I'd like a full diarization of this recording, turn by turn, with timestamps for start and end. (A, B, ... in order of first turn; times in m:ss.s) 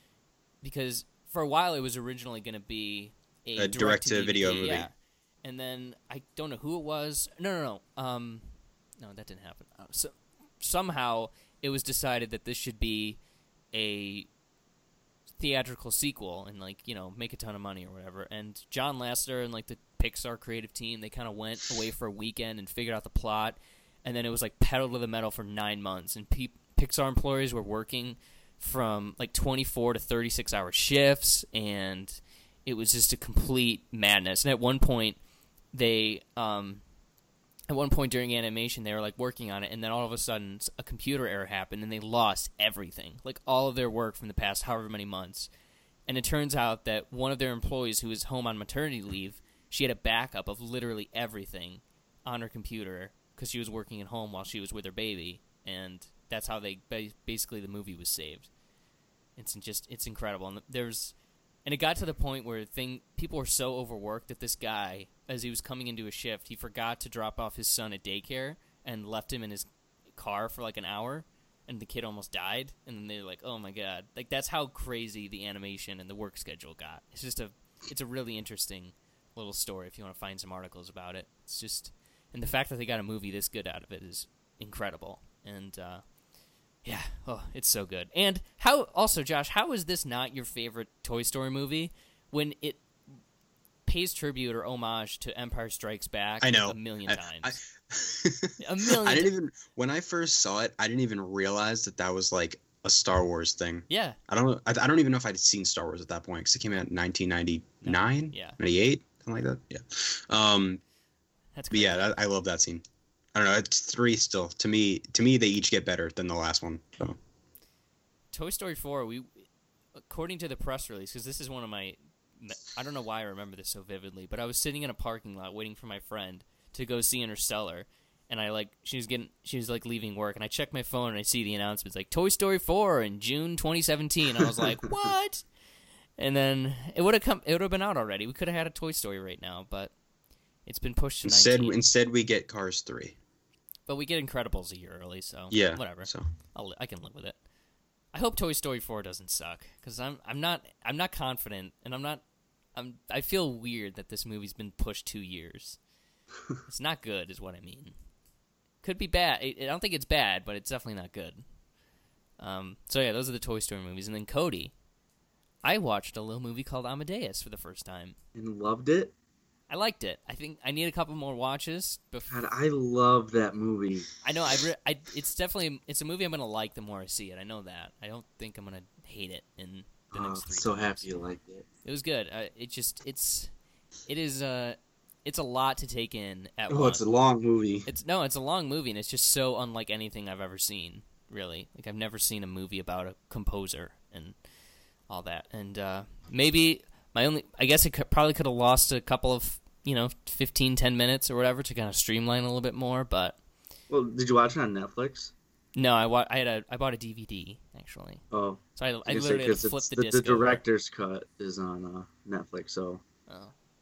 0:00.6-0:13.2 A
0:03.6-0:04.9 B
0:13.7-0:14.3 A
0:15.4-0:35.2 A
0:35.7-0:36.8 A
0:37.7-0:45.5 A
0:46.1-0:58.5 A
0:59.4-1:26.0 A
1:26.8-1:32.8 A
1:33.8-1:37.6 A
1:36.4-1:50.8 B
1:38.6-1:39.3 A
1:43.9-1:44.2 A
1:47.8-1:48.6 A
1:51.5-1:52.1 A
1:51.7-1:57.2 B
1:58.3-1:59.4 A
2:00.0-2:15.4 A
2:16.2-2:19.9 A
2:20.6-2:21.8 A
2:21.2-2:23.1 B
2:23.9-2:27.4 A
2:25.5-2:26.2 B
2:28.1-2:32.2 A
2:32.7-2:35.8 A
2:36.7-2:37.9 A
2:38.8-2:41.4 A
2:42.4-2:44.7 A
2:45.6-2:48.2 A
2:48.3-2:49.1 C
2:49.7-2:52.4 A
2:52.3-2:54.1 C
2:54.2-3:01.1 A
3:00.1-3:01.6 C
3:01.8-3:03.5 A
3:04.0-3:07.0 A
3:06.7-3:07.9 C
3:07.8-3:14.4 A
3:15.1-3:23.4 A
3:23.9-3:25.3 C
3:25.8-3:28.2 A
3:28.3-3:33.0 C
3:28.8-3:30.6 A
3:33.3-3:33.5 A